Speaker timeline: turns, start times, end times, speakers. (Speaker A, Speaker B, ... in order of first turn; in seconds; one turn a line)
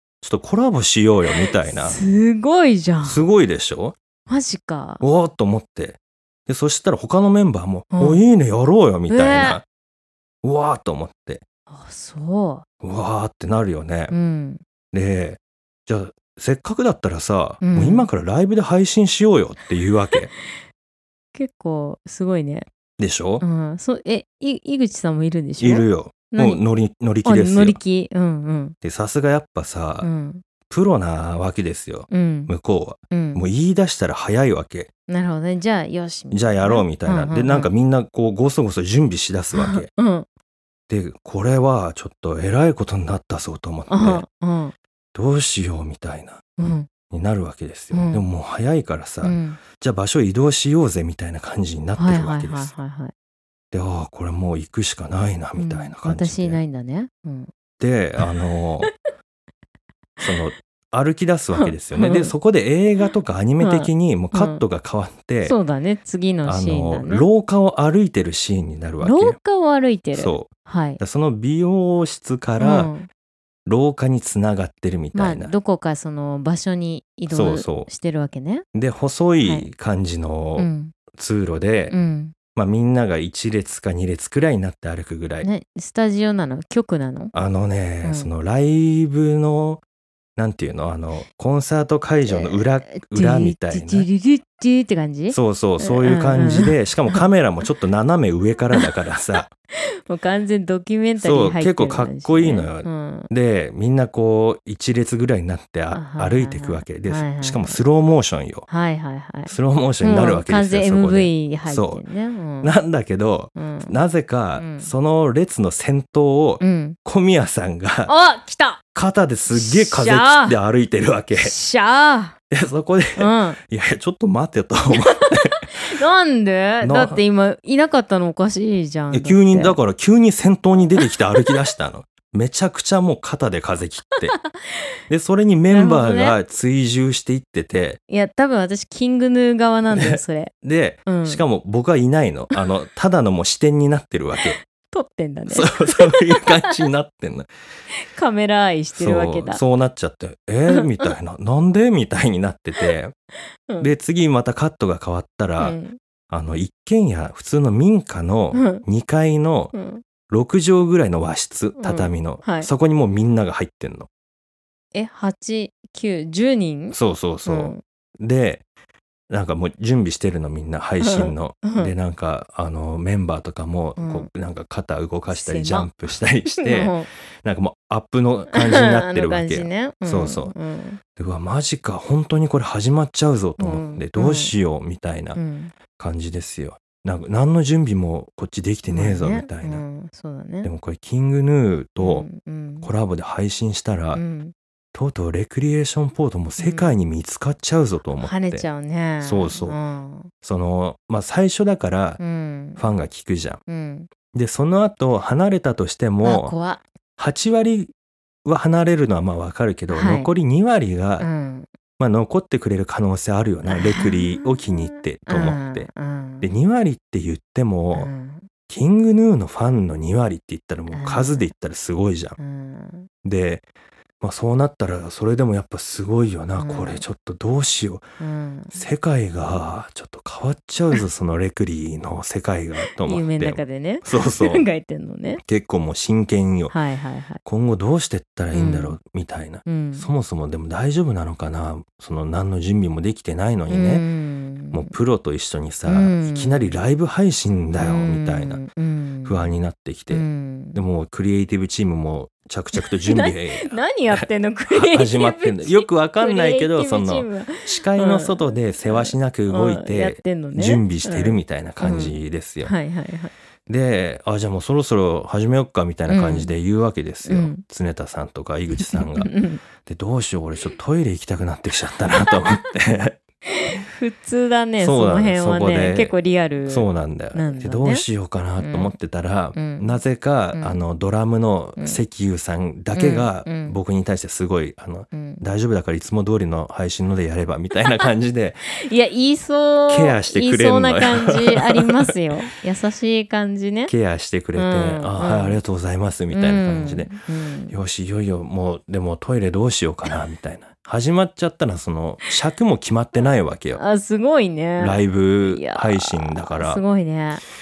Speaker A: 0.2-2.0
Speaker B: 1.6-3.2
Speaker A: 3.0-4.0
Speaker B: 4.3-5.0
Speaker A: 5.0-9.6
Speaker B: 7.9-8.2
Speaker B: 9.1-9.6
Speaker A: 10.4-11.4
Speaker B: 11.7-12.6
Speaker A: 12.8-14.1
Speaker B: 14.1-14.6
Speaker A: 14.9-20.3
Speaker B: 17.6-18.1
Speaker B: 21.3-22.7
Speaker A: 23.0-23.4
Speaker B: 23.4-26.6
Speaker A: 25.6-27.8
Speaker B: 27.2-28.8
Speaker A: 28.8-30.1
Speaker B: 30.0-30.4
Speaker A: 30.7-34.9
Speaker B: 32.1-32.5
Speaker B: 33.1-33.4
Speaker B: 35.1-37.7
Speaker A: 36.3-39.9
Speaker B: 39.5-40.2
Speaker A: 40.9-44.2
Speaker B: 43.9-44.7
Speaker A: 45.1-46.4
Speaker B: 46.6-46.9
Speaker A: 47.1-52.7
Speaker B: 47.9-48.2
Speaker B: 49.2-49.6
Speaker B: 52.0-53.1
Speaker A: 53.7-56.6
Speaker B: 55.6-57.5
Speaker A: 57.8-58.9
Speaker B: 58.2-59.1
Speaker A: 60.2-65.6
Speaker B: 61.5-62.3
Speaker B: 63.6-64.6
Speaker B: 65.4-67.3
Speaker A: 66.4-69.4
Speaker B: 69.0-71.0
Speaker A: 70.1-72.9
Speaker B: 72.6-73.1
Speaker A: 73.7-75.5
Speaker B: 75.1-78.6
Speaker A: 77.3-77.9
Speaker A: 78.7-81.9
Speaker B: 80.6-80.9
Speaker B: 81.9-82.3
Speaker A: 82.5-85.5
Speaker B: 85.4-87.3
Speaker A: 87.3-89.8
Speaker B: 88.0-88.3
Speaker A: 90.4-94.1
Speaker B: 92.3-97.2
Speaker A: 95.3-99.5
Speaker B: 100.1-103.3
Speaker A: 101.2-108.7
Speaker B: 105.9-107.8
Speaker B: 108.7-112.7
Speaker A: 109.5-112.0
Speaker A: 112.6-118.1
Speaker B: 113.5-113.9
Speaker B: 114.6-114.9
Speaker B: 116.6-117.0
Speaker B: 118.0-118.8
Speaker A: 118.9-121.5
Speaker B: 119.5-120.6
Speaker B: 121.3-122.3
Speaker A: 122.5-125.9
Speaker B: 123.2-123.6
Speaker B: 124.9-129.8
Speaker A: 126.8-127.2
Speaker A: 129.1-134.3
Speaker B: 131.0-131.5
Speaker B: 134.1-134.8
Speaker A: 135.1-138.0
Speaker B: 135.7-136.3
Speaker B: 138.1-140.5
Speaker A: 139.9-144.6
Speaker B: 141.1-141.4
Speaker B: 144.3-146.7
Speaker A: 145.5-147.5
Speaker B: 147.9-149.6
Speaker A: 148.9-153.1
Speaker B: 150.7-151.1
Speaker B: 153.7-153.9
Speaker A: 153.8-155.8
Speaker B: 155.6-156.0
Speaker A: 156.3-159.7
Speaker B: 158.5-158.8
Speaker B: 159.7-160.0
Speaker A: 160.3-164.1
Speaker B: 161.8-162.7
Speaker B: 164.9-167.8
Speaker A: 166.9-168.6
Speaker A: 169.3-180.5
Speaker B: 171.0-171.9
Speaker B: 174.0-174.3
Speaker B: 175.3-175.9
Speaker B: 176.6-177.1
Speaker B: 178.5-181.0
Speaker A: 181.2-185.4
Speaker B: 183.6-184.5
Speaker B: 185.3-185.7
Speaker A: 186.0-189.8
Speaker B: 188.9-190.7
Speaker A: 190.6-192.3
Speaker B: 192.0-192.9
Speaker A: 192.8-194.2
Speaker B: 194.1-194.5
Speaker A: 194.9-198.7
Speaker B: 196.6-196.9
Speaker B: 198.2-200.3
Speaker A: 199.2-199.8
Speaker A: 200.4-202.2
Speaker B: 202.2-202.9
Speaker A: 202.8-203.6
Speaker B: 203.7-204.1
Speaker A: 204.3-206.5
Speaker B: 206.2-206.8
Speaker A: 207.2-207.9
Speaker A: 208.4-211.3
Speaker B: 209.9-210.3
Speaker B: 211.2-211.7
Speaker A: 212.0-215.9
Speaker B: 213.7-216.5
Speaker A: 216.4-218.1
Speaker B: 217.9-218.5
Speaker A: 218.7-222.4
Speaker B: 220.9-221.5
Speaker B: 222.4-223.1
Speaker A: 223.2-223.6
Speaker A: 224.2-228.0
Speaker B: 226.6-227.0
Speaker B: 228.2-228.8
Speaker A: 228.7-234.6
Speaker B: 232.8-235.4
Speaker A: 235.4-236.7
Speaker B: 236.7-237.4
Speaker A: 237.4-244.1
Speaker B: 238.5-239.0
Speaker B: 239.7-240.1
Speaker B: 243.7-244.9
Speaker A: 244.7-248.6
Speaker B: 245.8-246.7
Speaker B: 247.8-249.6
Speaker A: 249.2-262.7
Speaker B: 250.1-250.8
Speaker B: 252.7-263.3
Speaker A: 263.7-273.2
Speaker B: 266.1-266.5
Speaker B: 267.2-267.6
Speaker B: 268.8-269.6
Speaker B: 273.4-278.1
Speaker A: 274.8-276.1
Speaker A: 276.6-288.6
Speaker B: 278.6-278.9
Speaker B: 279.5-280.0
Speaker B: 280.5-280.8
Speaker B: 282.9-283.8
Speaker B: 285.1-285.4
Speaker B: 288.8-293.9
Speaker A: 289.9-292.1
Speaker A: 293.9-297.1
Speaker B: 294.5-295.6
Speaker B: 296.3-297.8
Speaker A: 297.7-303.8
Speaker B: 303.7-307.4
Speaker A: 304.8-306.8